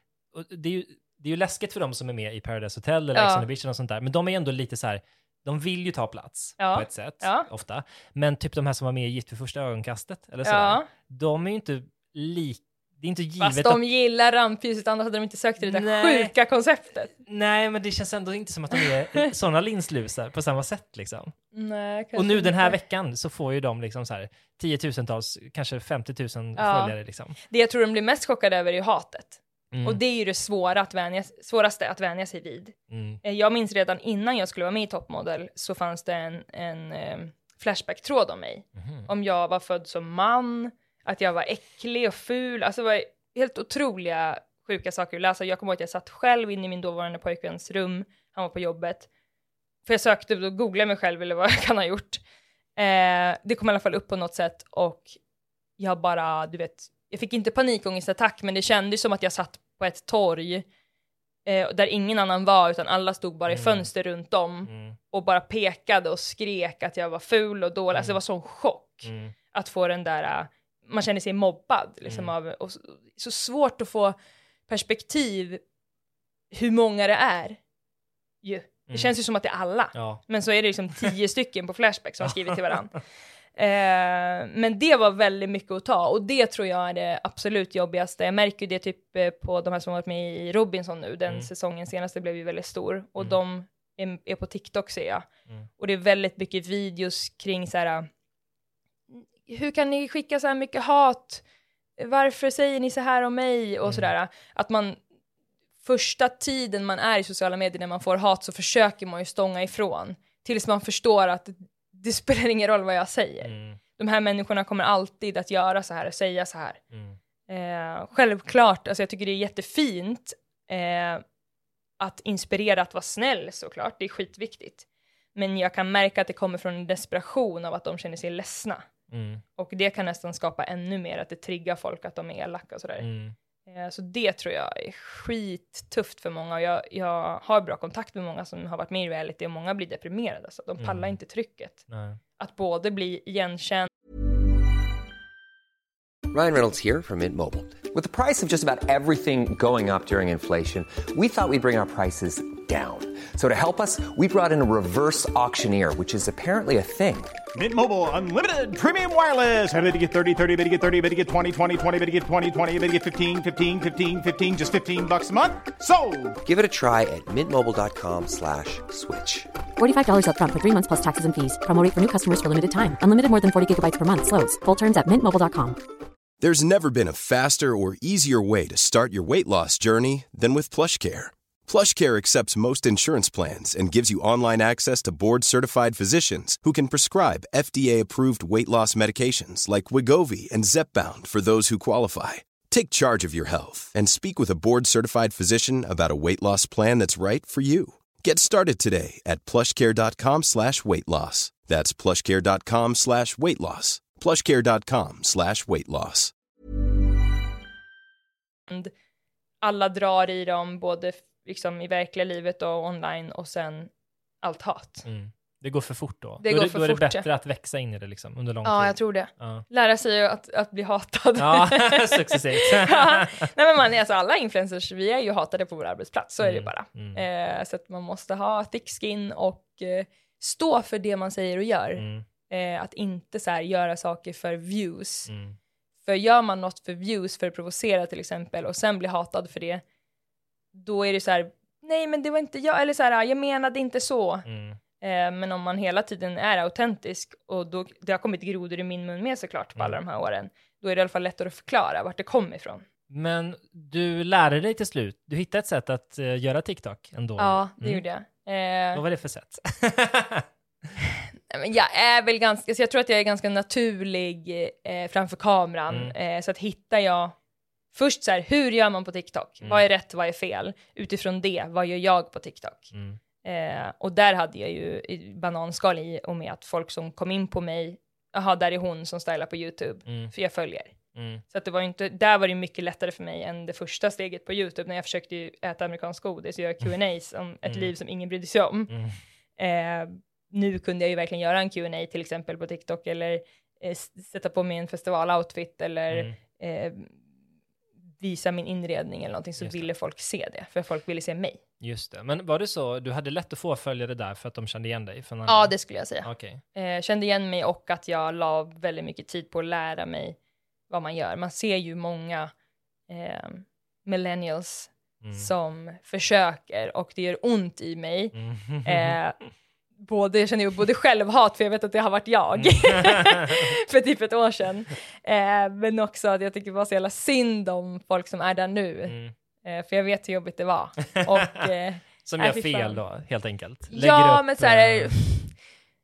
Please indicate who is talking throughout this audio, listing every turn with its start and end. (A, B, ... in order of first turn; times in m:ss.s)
0:00.3-0:13.8 A
0:03.1-0:03.5 B
0:06.6-0:07.5 B
0:10.4-0:10.9 B
0:13.4-0:17.1 B
0:15.6-0:16.3 A
0:17.2-0:21.3 A
0:18.8-0:19.3 B
0:21.5-0:22.8 B
0:22.1-0:27.4 A
0:26.6-0:49.1 B
0:29.7-0:30.0 A
0:32.9-0:33.2 A
0:38.8-0:39.1 A
0:49.8-0:52.2 B
0:52.8-0:55.2 B
0:55.8-1:00.6 B
1:01.4-1:14.2 B
1:03.5-1:03.9 A
1:04.6-1:05.0 A
1:09.0-1:09.3 A
1:12.1-1:12.3 A
1:14.7-1:15.6 B
1:16.5-1:17.6 B
1:18.4-1:23.0 B
1:19.9-1:20.2 A
1:23.6-1:35.3 B
1:35.8-1:38.1 B
1:39.1-1:41.4 B
1:42.0-1:45.0 B
1:43.8-1:44.1 A
1:45.8-1:56.8 B
1:53.4-1:53.8 A
1:57.5-2:01.2 B
2:02.0-2:08.8 B
2:09.1-2:09.4 A
2:09.6-2:13.1 B
2:13.0-2:13.4 A
2:13.7-2:21.8 B
2:20.8-2:21.1 A
2:21.9-2:22.2 A
2:22.4-2:23.9 B
2:26.3-2:37.3 C
2:37.6-2:46.4 D
2:46.4-2:49.5 C
2:49.8-2:55.8 E
2:56.4-3:26.3 F
3:29.6-3:33.9 B
3:34.4-3:35.0 B
3:35.0-3:39.6 A
3:36.4-3:37.2 B
3:38.6-3:55.3 B
3:41.4-3:43.5 A
3:46.4-3:47.2 A
3:52.0-3:52.2 A
3:55.3-3:55.6 A
3:56.0-3:59.8 B
4:00.7-4:04.4 B
4:04.4-4:04.8 A
4:05.0-4:12.8 B
4:13.1-4:18.0 A
4:17.4-4:19.0 B
4:18.9-4:20.9 A
4:21.5-4:27.3 B
4:25.9-4:26.1 A
4:27.9-4:41.0 B
4:32.9-4:33.2 A
4:41.1-4:41.4 A
4:41.5-4:48.9 B
4:47.6-4:47.9 A
4:48.9-4:49.2 A
4:49.6-4:57.2 B
4:58.2-5:01.6 B
4:59.6-4:59.9 A
5:01.8-5:06.6 A
5:05.5-5:10.4 B
5:10.9-5:12.5 B
5:13.1-5:19.4 B
5:15.2-5:15.5 A
5:18.3-5:19.2 A
5:20.0-5:33.0 B
5:22.6-5:23.7 A
5:29.1-5:29.3 A
5:31.2-5:31.7 A
5:32.2-5:35.1 A
5:33.9-5:35.6 B